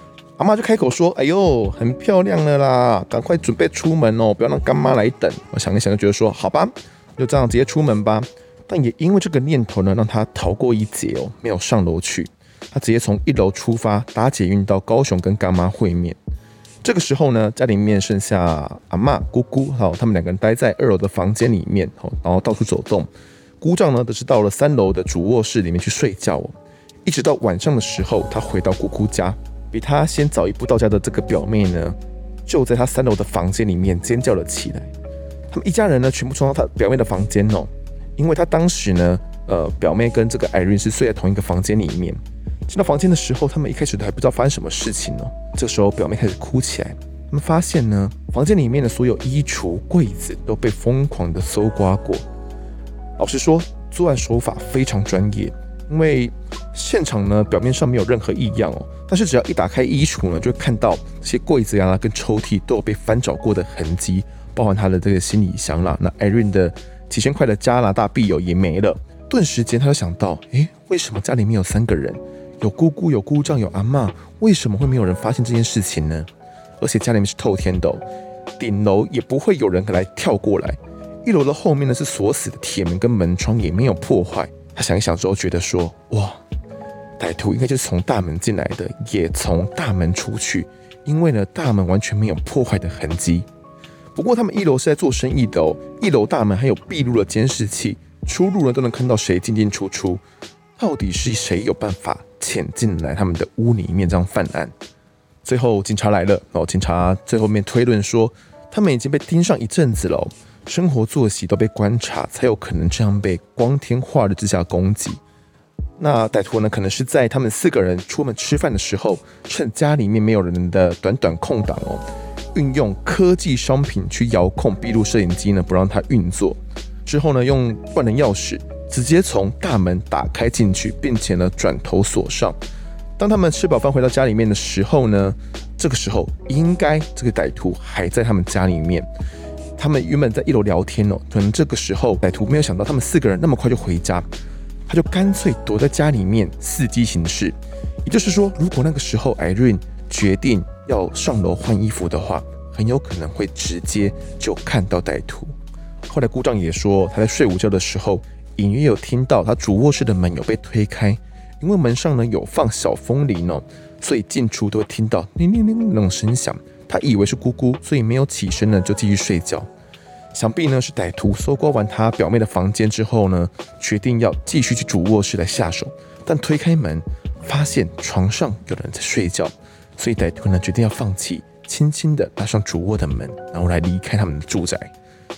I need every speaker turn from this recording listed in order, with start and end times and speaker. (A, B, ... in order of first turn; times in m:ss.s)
0:00.4-0:16.2 A
0:16.8-0:23.1 A
0:23.6-0:26.5 A
0:27.0-0:34.9 A
0:35.5-0:52.2 A
0:53.2-1:16.3 A
1:16.8-1:18.0 A
1:18.6-1:26.4 A
1:27.2-1:33.5 A
1:34.2-1:40.2 A
1:40.8-1:44.7 A
1:45.4-1:55.2 A
1:56.0-2:12.6 A
2:13.2-2:19.1 A
2:19.8-2:24.3 A
2:24.9-2:35.5 A
2:36.1-2:49.7 A
2:50.3-3:04.9 A